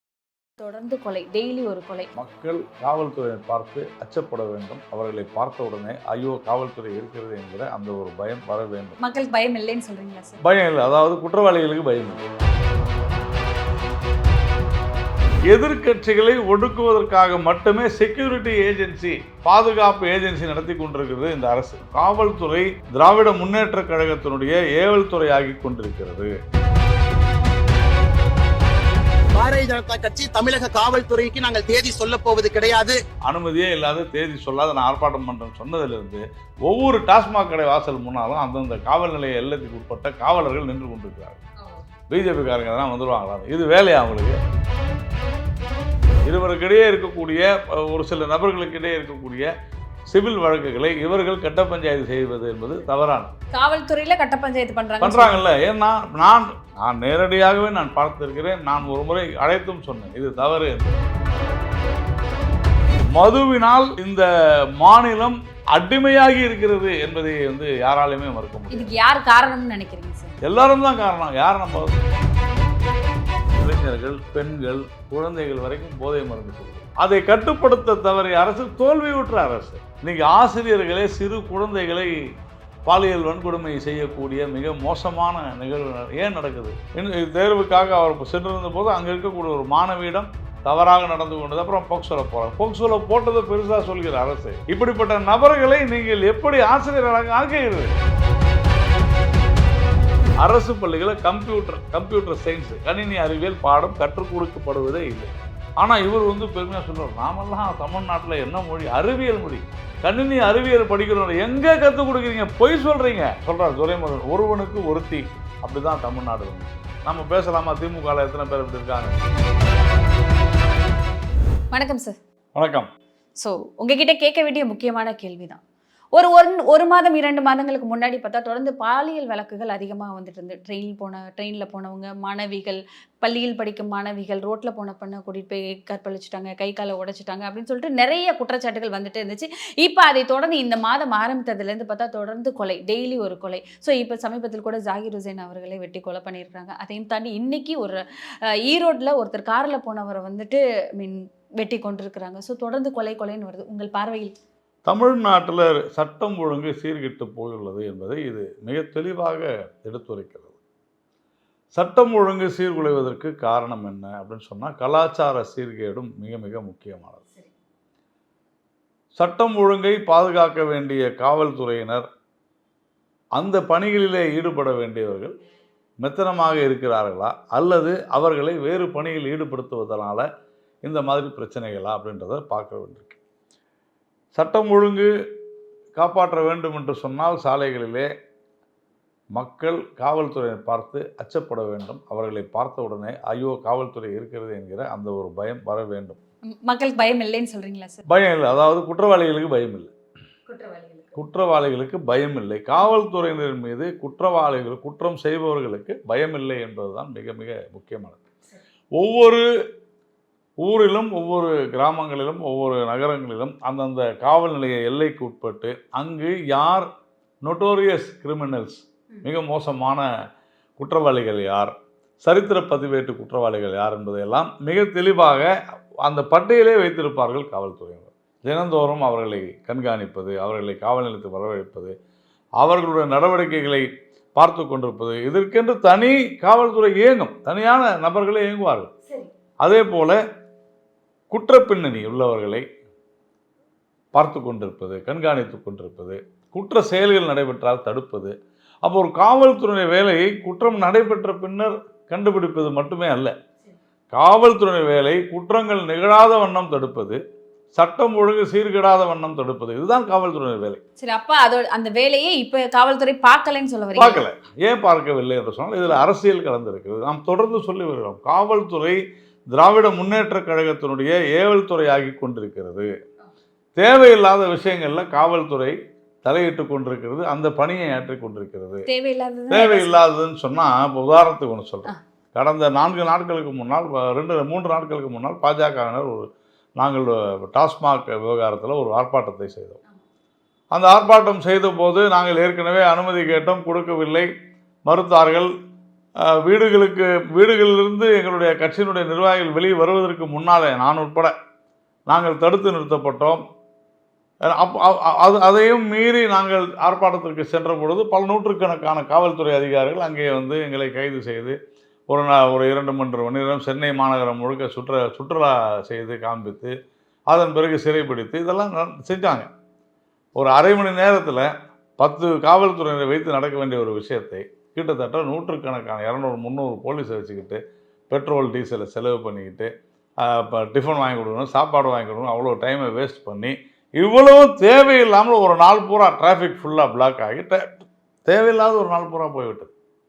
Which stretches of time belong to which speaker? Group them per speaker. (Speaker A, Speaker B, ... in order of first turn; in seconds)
Speaker A: 0.6-2.1, 9.0-10.4, 53.5-55.4, 68.7-70.3, 121.7-122.2, 123.4-125.6, 126.2-154.3, 196.5-198.0, 200.5-201.2, 239.1-239.3, 261.0-264.2, 278.9-280.1
Speaker B: 2.1-9.0, 10.4-12.2, 15.5-26.3, 33.2-41.4, 42.1-44.4, 46.2-49.5, 50.1-53.3, 55.0-61.0, 63.1-68.9, 70.4-72.1, 73.5-82.2, 82.9-98.0, 100.4-119.2, 122.5-122.9, 154.9-160.6, 161.8-167.2, 169.2-172.1, 173.4-175.3, 176.0-180.3, 180.8-183.2, 184.3-185.1, 186.0-188.1, 189.4-196.2, 198.1-199.9, 201.2-208.2, 209.0-209.4, 210.6-216.9, 217.4-220.1, 220.8-231.9, 232.6-238.9, 239.6-240.2, 241.3-242.7, 244.2-253.3, 254.1-257.2, 257.8-260.8, 264.0-269.0, 269.5-272.9, 273.8-278.9, 279.5-289.8, 290.7-294.3, 294.9-295.5, 296.2-301.3, 302.1-303.4, 304.5-311.6, 312.1-316.8, 317.3-319.5, 320.4-329.7, 330.2-337.6, 338.3-339.7
Speaker C: 29.4-33.0